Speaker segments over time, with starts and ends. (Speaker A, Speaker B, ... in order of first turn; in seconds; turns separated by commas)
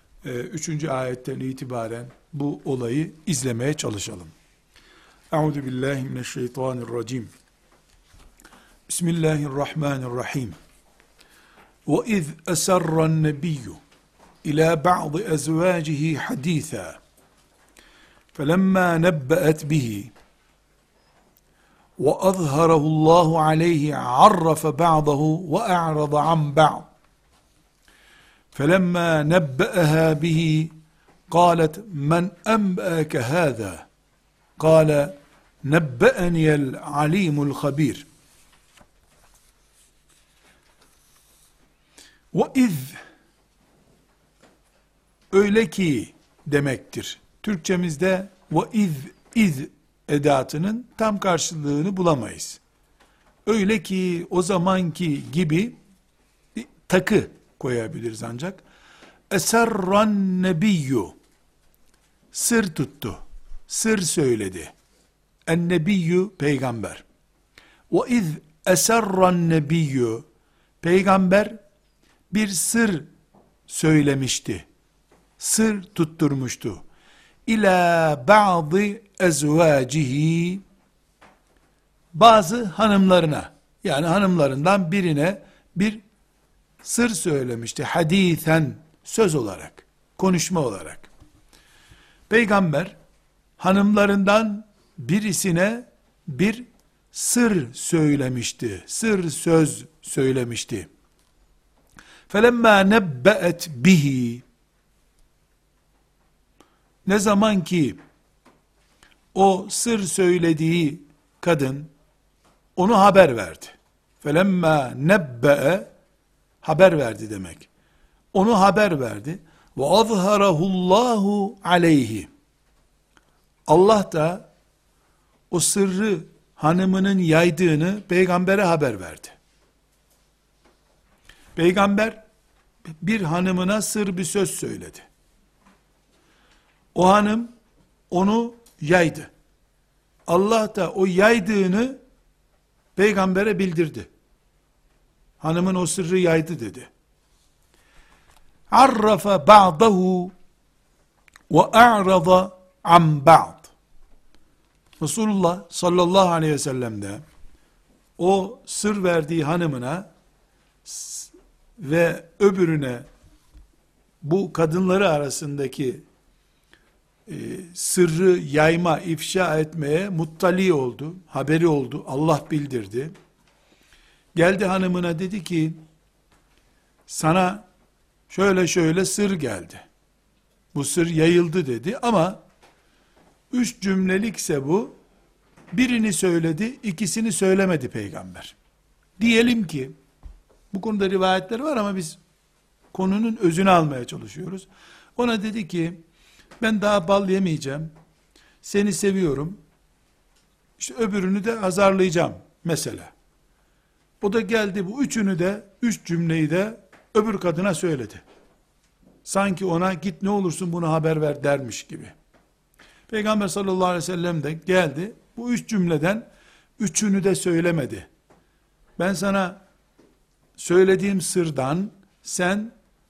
Speaker A: 0.2-4.3, Speaker A: 5.3-7.3, Speaker A: 8.9-10.6, Speaker A: 11.8-13.8, Speaker A: 14.4-17.0, Speaker A: 18.3-20.1, Speaker A: 22.0-26.9, Speaker A: 28.5-30.7, Speaker A: 31.3-33.9, Speaker A: 34.6-38.1, Speaker A: 42.3-43.0, Speaker A: 45.3-52.6, Speaker A: 53.5-55.8, Speaker A: 56.5-58.6, Speaker A: 59.3-61.2, Speaker A: 62.3-64.7, Speaker A: 65.5-67.0, Speaker A: 67.9-70.2, Speaker A: 70.8-71.6, Speaker A: 72.3-73.1, Speaker A: 73.7-74.7, Speaker A: 75.4-76.8, Speaker A: 77.5-80.6, Speaker A: 82.1-86.0, Speaker A: 86.8-91.1, Speaker A: 92.3-93.0, Speaker A: 93.6-100.9, Speaker A: 102.3-104.4, Speaker A: 107.0-108.0, Speaker A: 109.3-111.9, Speaker A: 112.8-115.9, Speaker A: 116.6-117.7, Speaker A: 118.3-122.3, Speaker A: 123.7-124.5, Speaker A: 125.5-129.3, Speaker A: 131.5-132.2, Speaker A: 133.0-135.1, Speaker A: 136.9-137.5, Speaker A: 138.1-139.3, Speaker A: 140.3-142.0, Speaker A: 142.9-144.1, Speaker A: 145.4-146.9, Speaker A: 148.7-150.3, Speaker A: 151.5-153.7, Speaker A: 155.0-157.2, Speaker A: 158.2-160.1, Speaker A: 160.8-163.1, Speaker A: 164.2-166.0, Speaker A: 167.3-173.1, Speaker A: 174.3-175.8, Speaker A: 177.1-177.7, Speaker A: 178.3-179.8, Speaker A: 180.7-182.4, Speaker A: 183.5-185.0, Speaker A: 185.7-188.6, Speaker A: 189.2-189.9, Speaker A: 190.7-192.2, Speaker A: 192.9-196.0, Speaker A: 196.6-197.9, Speaker A: 198.6-199.6, Speaker A: 200.8-203.1, Speaker A: 204.2-208.2, Speaker A: 209.2-212.1, Speaker A: 213.1-218.1, Speaker A: 219.0-219.6, Speaker A: 220.6-222.7